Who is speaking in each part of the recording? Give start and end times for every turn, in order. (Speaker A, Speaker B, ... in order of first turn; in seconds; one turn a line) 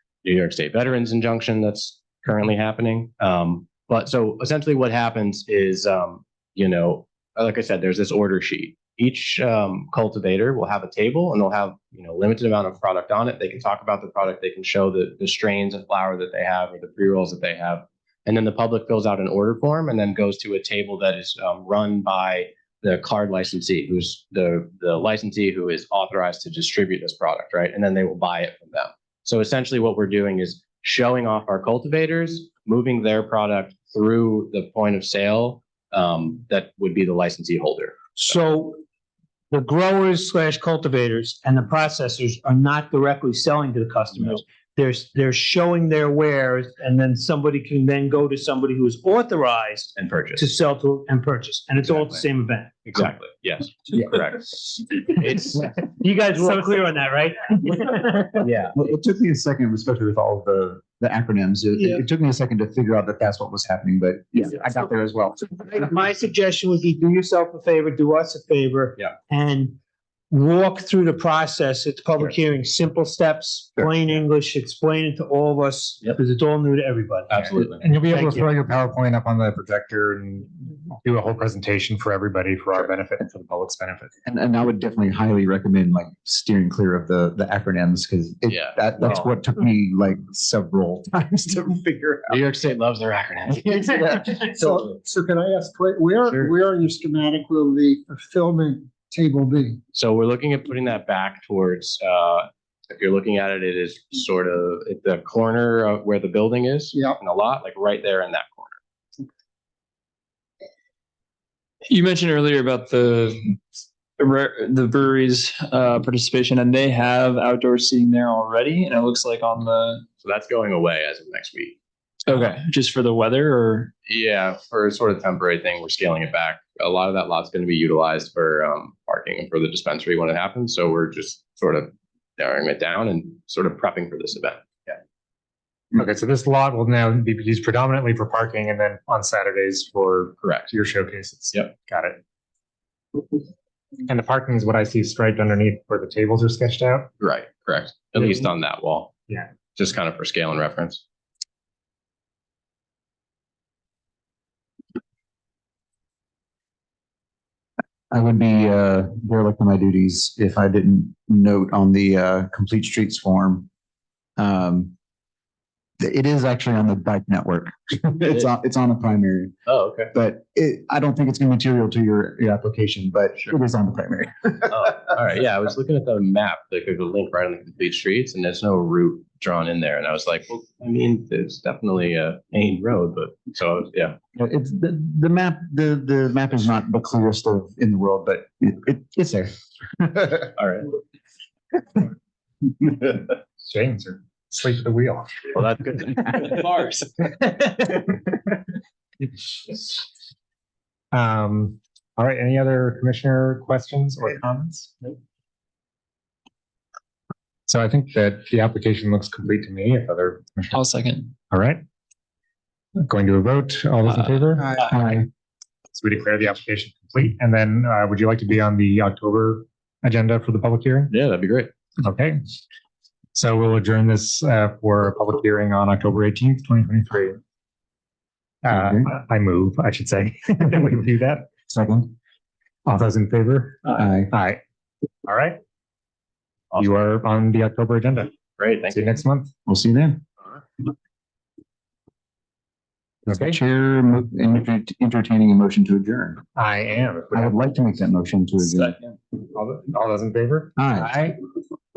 Speaker A: 0.2-38.4
Speaker B: 38.2-38.8
Speaker B: 39.5-52.8
Speaker A: 50.0-50.5
Speaker A: 51.8-52.2
Speaker A: 52.8-55.8
Speaker B: 55.8-58.4
Speaker A: 58.4-58.8
Speaker C: 58.8-65.8
Speaker B: 61.8-62.0
Speaker B: 65.7-69.8
Speaker B: 70.3-78.5
Speaker A: 77.3-77.9
Speaker D: 77.8-84.1
Speaker C: 84.2-92.4
Speaker A: 88.5-89.3
Speaker A: 92.3-94.9
Speaker C: 93.7-94.3
Speaker E: 94.5-99.8
Speaker A: 99.9-108.8
Speaker F: 111.9-113.6
Speaker F: 114.2-120.0
Speaker A: 120.2-121.8
Speaker F: 122.3-123.9
Speaker A: 124.0-135.0
Speaker D: 135.9-142.2
Speaker A: 140.4-140.7
Speaker D: 144.1-147.1
Speaker A: 147.2-149.1
Speaker A: 149.8-151.0
Speaker C: 158.1-163.7
Speaker C: 164.4-164.9
Speaker C: 166.0-169.6
Speaker A: 168.2-168.5
Speaker A: 169.7-170.1
Speaker C: 170.1-174.7
Speaker A: 174.7-184.2
Speaker C: 184.3-190.5
Speaker A: 190.6-190.9
Speaker D: 193.6-195.5
Speaker F: 196.1-197.1
Speaker D: 201.1-204.9
Speaker D: 207.7-210.8
Speaker F: 210.7-211.3
Speaker D: 211.5-211.8
Speaker D: 213.1-215.3
Speaker D: 216.0-221.1
Speaker A: 221.1-221.7
Speaker D: 222.0-222.4
Speaker D: 223.3-227.4
Speaker D: 228.6-231.5
Speaker C: 228.7-229.1
Speaker C: 231.7-232.1
Speaker D: 232.9-234.6
Speaker C: 234.0-234.3
Speaker D: 235.3-235.6
Speaker D: 236.8-238.3
Speaker A: 238.6-239.2
Speaker D: 238.9-239.5
Speaker C: 239.7-240.2
Speaker D: 243.3-243.6
Speaker C: 243.3-246.4
Speaker D: 246.6-247.6
Speaker C: 247.3-249.0
Speaker F: 248.6-249.2
Speaker D: 249.5-251.3
Speaker C: 250.8-251.2